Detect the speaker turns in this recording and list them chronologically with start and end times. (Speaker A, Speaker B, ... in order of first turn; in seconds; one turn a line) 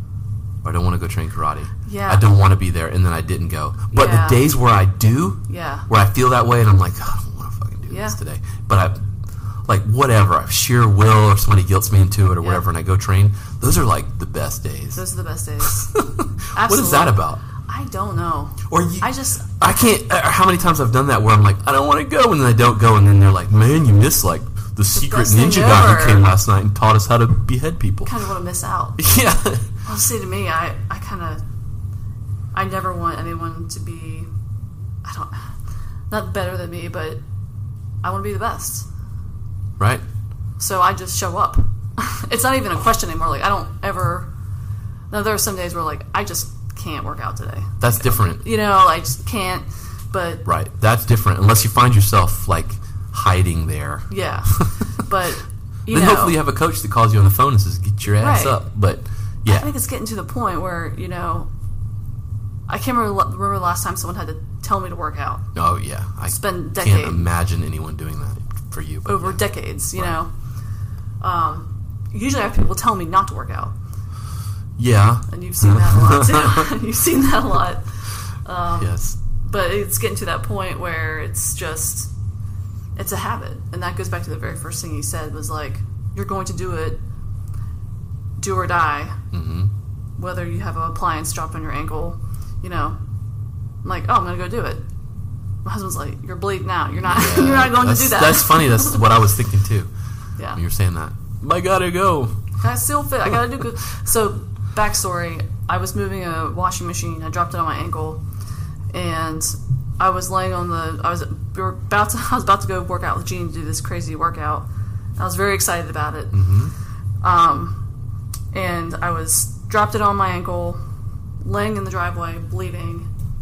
Speaker A: 0.6-9.0
Speaker B: 1.9-2.2
Speaker B: 3.9-4.5
Speaker B: 5.5-5.9
Speaker B: 7.9-8.2
Speaker A: 9.6-15.0
Speaker B: 14.9-15.9
Speaker A: 15.7-17.4
Speaker B: 16.5-19.6
Speaker A: 18.6-28.1
Speaker B: 24.9-26.2
Speaker B: 28.0-29.0
Speaker A: 29.0-29.7
Speaker B: 29.9-31.4
Speaker B: 32.5-34.3
Speaker B: 35.0-35.5
Speaker B: 36.1-37.2
Speaker B: 38.0-38.9
Speaker A: 39.8-40.0
Speaker B: 40.6-44.3
Speaker B: 45.1-50.5
Speaker A: 47.8-48.4
Speaker A: 50.5-54.7
Speaker B: 54.1-56.4
Speaker A: 55.9-59.7
Speaker B: 58.2-58.6
Speaker B: 59.5-61.5
Speaker B: 62.7-65.5
Speaker A: 65.5-69.4
Speaker B: 66.2-67.3
Speaker B: 69.0-70.3
Speaker A: 69.9-70.2
Speaker B: 71.2-73.7
Speaker A: 74.8-76.7
Speaker B: 75.3-77.9
Speaker B: 78.4-82.1
Speaker A: 78.8-79.2
Speaker B: 83.0-87.0
Speaker B: 88.4-89.2
Speaker A: 89.3-89.7
Speaker B: 90.2-93.0
Speaker B: 93.8-94.9
Speaker B: 95.6-99.0
Speaker A: 97.0-99.9
Speaker A: 100.5-102.4
Speaker B: 102.6-108.2
Speaker B: 108.9-114.7
Speaker B: 115.2-116.4
Speaker A: 116.3-116.7
Speaker B: 117.2-117.8
Speaker B: 118.5-120.8
Speaker B: 121.4-123.1